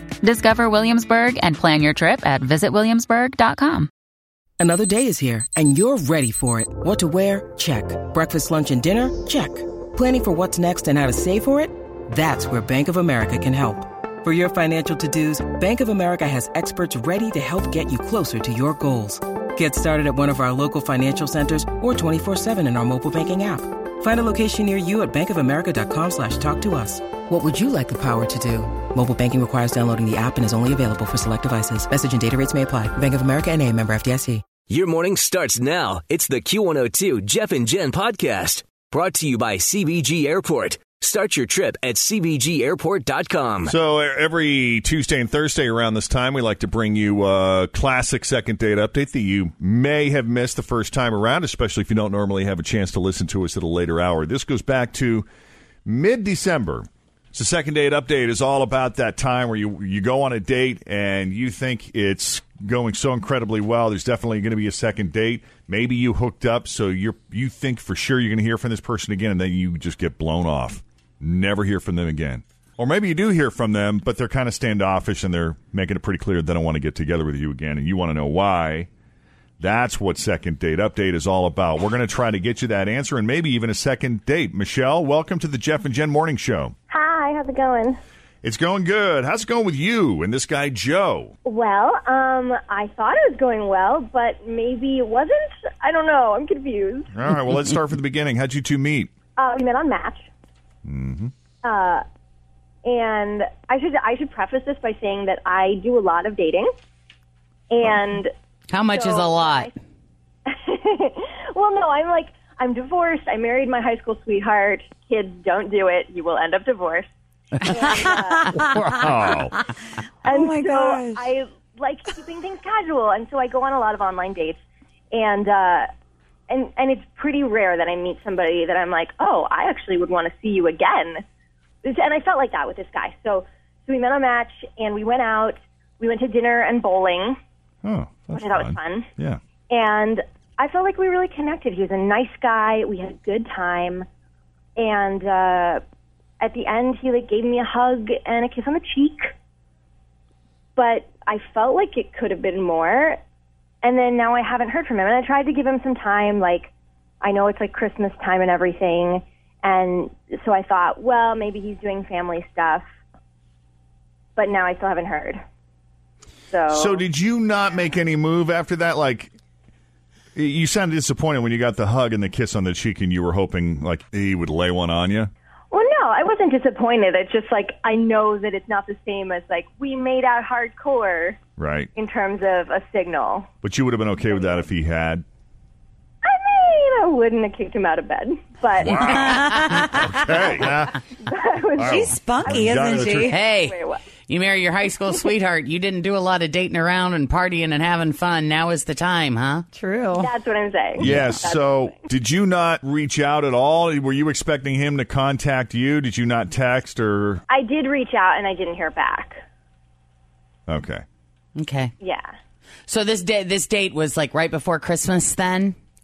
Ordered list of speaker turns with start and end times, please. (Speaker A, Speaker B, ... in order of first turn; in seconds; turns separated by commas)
Speaker A: 0.2-3.9, Speaker B: 4.6-34.4, Speaker C: 34.7-43.7, Speaker D: 43.6-55.2, Speaker D: 55.8-78.9, Speaker D: 79.6-86.7, Speaker E: 86.9-88.0, Speaker D: 88.4-91.3, Speaker E: 91.4-97.1, Speaker D: 97.1-99.1, Speaker E: 99.4-100.3, Speaker D: 100.8-101.3, Speaker E: 101.6-102.0, Speaker E: 102.8-106.7, Speaker E: 107.7-108.3, Speaker F: 108.7-109.7, Speaker E: 108.9-109.7, Speaker E: 110.5-117.1, Speaker E: 117.6-118.6, Speaker F: 117.6-118.8, Speaker D: 118.5-119.5, Speaker E: 120.2-124.6, Speaker G: 120.4-121.1, Speaker E: 125.1-125.9, Speaker E: 126.5-131.2, Speaker E: 131.8-137.4, Speaker D: 137.8-139.4, Speaker E: 138.3-139.1, Speaker E: 139.7-144.1, Speaker E: 144.8-145.8, Speaker E: 146.4-149.3, Speaker E: 150.8-153.2, Speaker E: 153.8-162.8, Speaker E: 164.3-165.4, Speaker E: 166.5-167.1, Speaker D: 166.7-169.3, Speaker D: 170.3-175.3, Speaker E: 175.7-181.4, Speaker D: 181.6-181.9, Speaker E: 181.9-183.5, Speaker D: 183.6-185.2, Speaker E: 186.2-189.3, Speaker D: 188.8-191.0, Speaker F: 189.4-189.7, Speaker E: 191.2-194.0, Speaker D: 191.7-193.3, Speaker G: 192.0-193.3, Speaker F: 193.3-199.7, Speaker G: 199.7-200.2, Speaker E: 200.2-202.0, Speaker D: 201.0-207.4, Speaker E: 207.5-209.4, Speaker D: 210.7-211.0, Speaker F: 211.6-211.9, Speaker E: 212.0-212.3, Speaker F: 212.9-215.8